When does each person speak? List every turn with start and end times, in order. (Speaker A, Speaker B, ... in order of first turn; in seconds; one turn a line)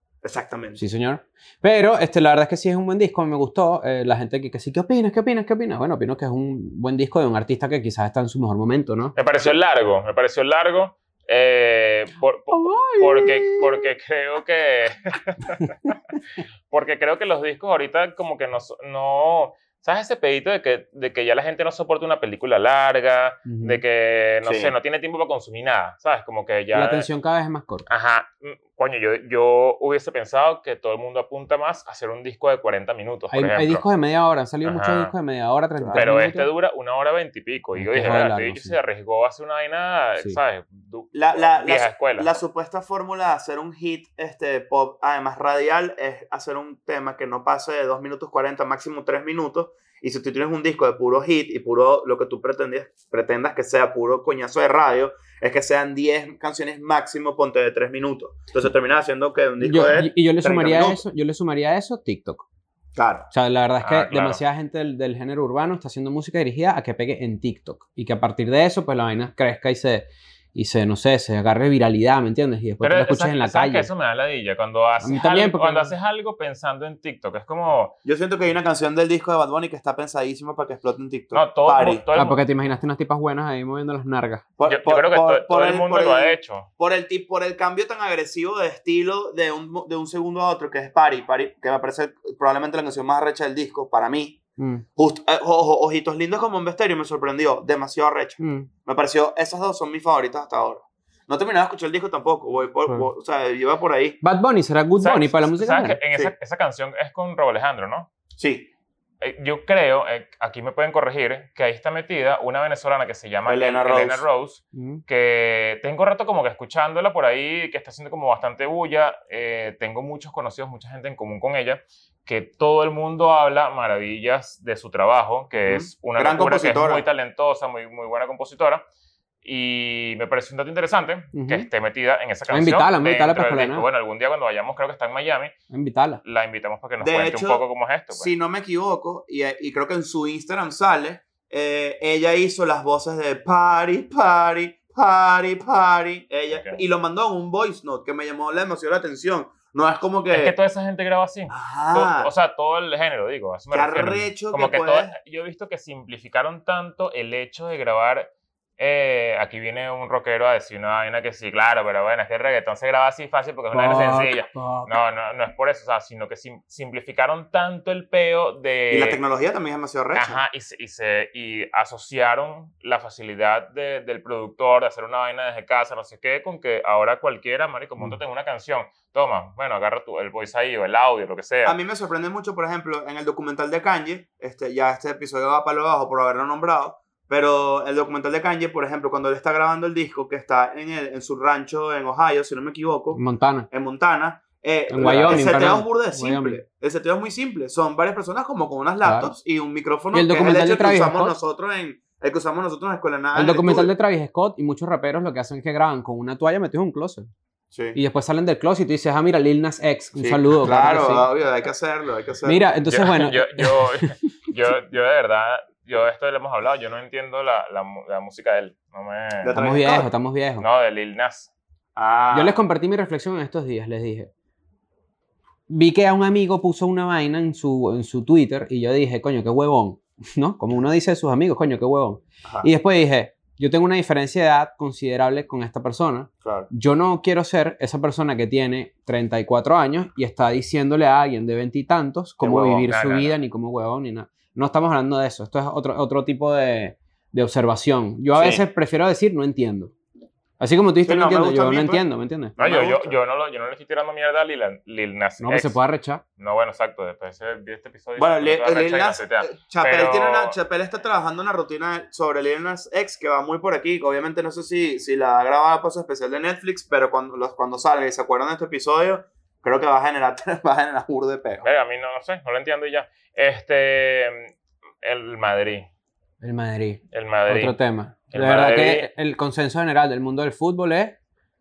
Speaker A: 0.2-0.8
Speaker B: 0.8-9.2
Speaker C: 9.2-15.7
Speaker B: 12.5-13.7
Speaker C: 16.7-27.1
Speaker B: 23.5-23.8
Speaker A: 24.4-24.7
Speaker B: 26.7-27.9
Speaker C: 27.9-33.8
Speaker B: 33.3-36.5
Speaker C: 34.6-35.1
Speaker A: 35.8-36.1
Speaker C: 35.9-42.3
Speaker B: 37.8-38.8
Speaker A: 41.1-61.0
Speaker B: 59.6-62.4
Speaker A: 63.0-63.3
Speaker B: 63.3-73.9
Speaker C: 63.8-64.4
Speaker C: 72.8-77.9
Speaker B: 75.0-75.9
Speaker A: 78.0-82.0
Speaker C: 81.3-82.4
Speaker B: 82.1-84.4
Speaker A: 84.6-94.4
Speaker C: 84.7-86.7
Speaker B: 94.6-94.8
Speaker A: 95.0-104.2
Speaker B: 98.4-98.7
Speaker B: 104.2-106.0
Speaker C: 105.0-108.1
Speaker A: 108.4-108.7
Speaker C: 109.2-128.8
Speaker A: 113.5-114.2
Speaker B: 114.7-115.0
Speaker A: 125.7-127.0
Speaker C: 129.4-135.5
Speaker B: 131.3-131.7
Speaker B: 132.5-133.9
Speaker B: 135.7-136.2
Speaker C: 136.2-138.3
Speaker A: 137.0-150.6
Speaker C: 146.5-146.8
Speaker C: 150.3-169.2
Speaker A: 151.5-152.3
Speaker A: 153.7-155.1
Speaker B: 163.7-164.9
Speaker A: 168.9-170.4
Speaker C: 170.1-181.8
Speaker A: 181.6-203.9
Speaker B: 193.1-193.7
Speaker B: 194.9-196.6
Speaker B: 199.0-199.3
Speaker B: 200.1-201.3
Speaker B: 203.3-207.3
Speaker B: 207.9-211.3
Speaker A: 210.2-212.6
Speaker B: 212.4-214.2
Speaker C: 212.9-219.6
Speaker A: 219.4-220.1
Speaker B: 219.5-220.7
Speaker C: 220.6-221.5
Speaker A: 221.9-222.6
Speaker B: 222.3-224.3
Speaker B: 225.7-249.9
Speaker A: 236.4-236.7
Speaker A: 242.4-242.9
Speaker C: 242.9-243.3
Speaker A: 248.3-248.6
Speaker B: 250.6-252.5
Speaker A: 251.1-252.0
Speaker A: 252.6-253.2
Speaker C: 252.6-255.8
Speaker B: 255.4-256.2
Speaker C: 256.4-260.6
Speaker A: 258.2-271.6
Speaker C: 271.6-275.9
Speaker B: 276.4-281.1
Speaker C: 277.1-277.8
Speaker C: 278.3-279.1